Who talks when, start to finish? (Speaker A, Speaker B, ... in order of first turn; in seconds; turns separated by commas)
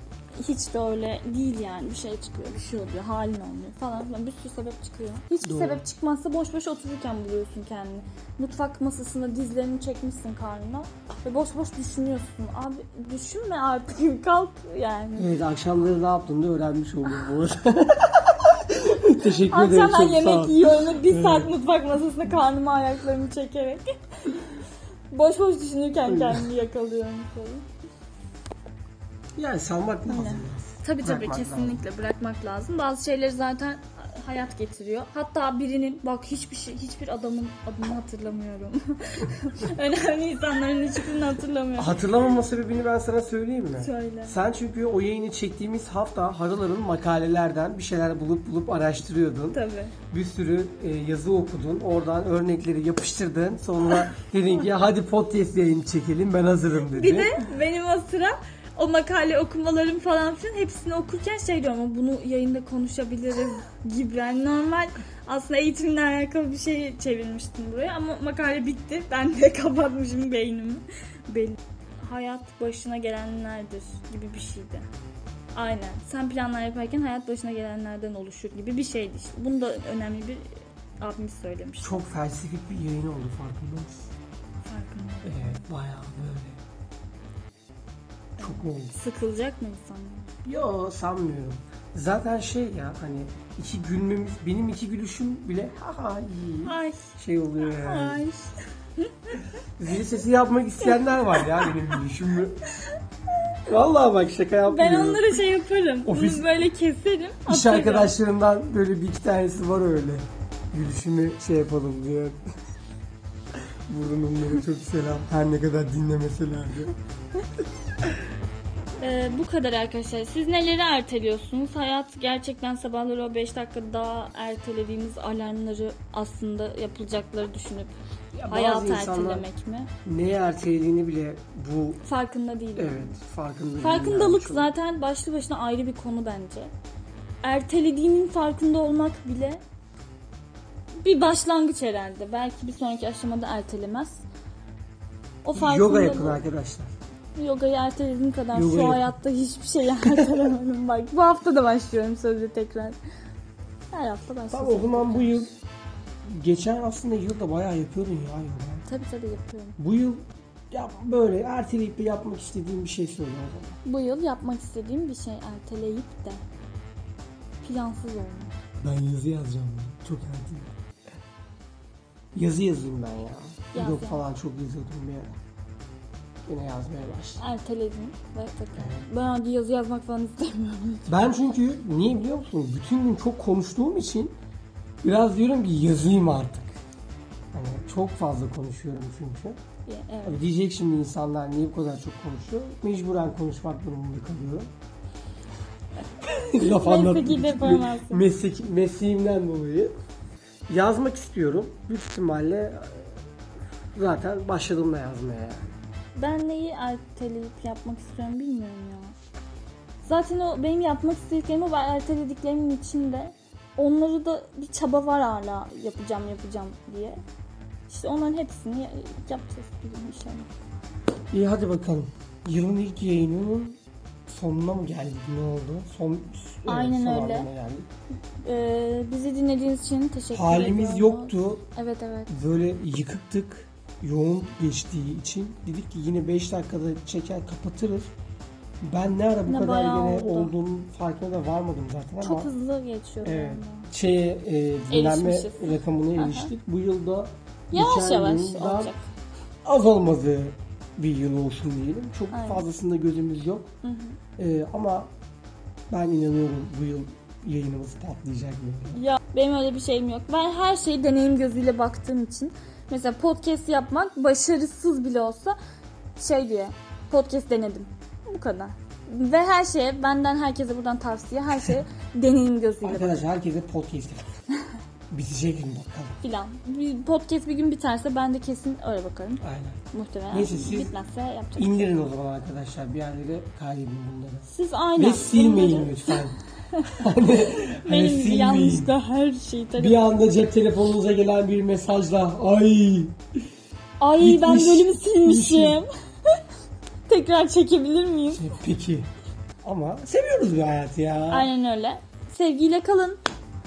Speaker A: 0.4-15.3, Speaker B: 5.4-5.8, Speaker B: 15.2-21.5, Speaker A: 19.4-24.6, Speaker A: 25.1-27.6, Speaker B: 26.0-26.5, Speaker B: 29.4-31.8, Speaker A: 30.1-42.3, Speaker B: 41.8-49.6, Speaker A: 43.8-44.4, Speaker A: 49.5-49.9, Speaker B: 50.1-57.4, Speaker A: 56.9-74.9, Speaker A: 75.5-82.0, Speaker B: 81.8-84.1, Speaker A: 84.6-85.6, Speaker B: 85.2-86.6, Speaker B: 88.4-88.9, Speaker A: 88.4-90.3, Speaker B: 90.4-98.2, Speaker A: 96.6-99.4, Speaker B: 99.8-102.6, Speaker A: 100.8-101.6, Speaker B: 103.7-105.4, Speaker A: 104.7-108.1, Speaker B: 106.0-106.5, Speaker B: 107.5-112.4, Speaker B: 113.9-116.9, Speaker A: 119.0-128.0, Speaker B: 128.3-129.4, Speaker A: 128.5-129.9, Speaker B: 130.0-132.0, Speaker A: 132.0-133.2, Speaker B: 132.8-134.7, Speaker A: 133.8-136.7, Speaker A: 137.4-139.6, Speaker A: 141.0-144.2, Speaker A: 145.4-146.4, Speaker B: 145.5-146.9, Speaker A: 147.3-153.0, Speaker B: 148.5-149.1, Speaker B: 150.0-150.4, Speaker A: 153.9-155.4, Speaker B: 154.5-155.5, Speaker B: 156.2-158.8, Speaker A: 158.9-159.8, Speaker B: 159.8-163.8, Speaker A: 163.8-166.4, Speaker A: 167.6-168.5, Speaker B: 168.8-170.7, Speaker B: 172.3-175.4, Speaker A: 173.7-174.2, Speaker B: 176.4-177.4, Speaker A: 177.4-181.1, Speaker B: 178.8-179.0, Speaker B: 181.1-184.3, Speaker B: 185.0-186.8, Speaker B: 187.5-189.6, Speaker A: 189.9-190.4, Speaker B: 190.2-194.7, Speaker B: 196.2-199.9, Speaker A: 196.6-198.2, Speaker B: 200.7-203.2, Speaker B: 203.9-205.8, Speaker A: 206.2-209.1, Speaker A: 210.0-217.2, Speaker A: 217.9-220.5, Speaker B: 221.3-227.9, Speaker A: 226.7-227.5, Speaker A: 228.4-232.3, Speaker B: 230.3-231.6, Speaker B: 232.3-238.1, Speaker B: 238.8-242.5, Speaker A: 239.4-240.5, Speaker A: 242.2-243.9, Speaker B: 243.2-248.9, Speaker A: 244.9-246.5, Speaker A: 247.7-249.0, Speaker B: 249.6-253.7, Speaker A: 252.3-252.6, Speaker A: 253.8-254.2, Speaker B: 254.4-255.1, Speaker B: 255.9-259.0, Speaker A: 258.9-265.6, Speaker A: 266.2-273.2, Speaker B: 271.5-271.8, Speaker B: 272.8-274.2, Speaker B: 275.1-276.2, Speaker A: 276.2-281.9, Speaker B: 279.4-280.9, Speaker B: 281.6-286.4, Speaker A: 284.5-287.0, Speaker B: 286.9-288.9, Speaker A: 287.6-290.1, Speaker B: 289.8-293.2, Speaker A: 294.0-295.9, Speaker B: 294.2-295.8, Speaker A: 297.1-298.5, Speaker B: 298.3-299.1, Speaker B: 299.6-301.5, Speaker A: 301.3-303.2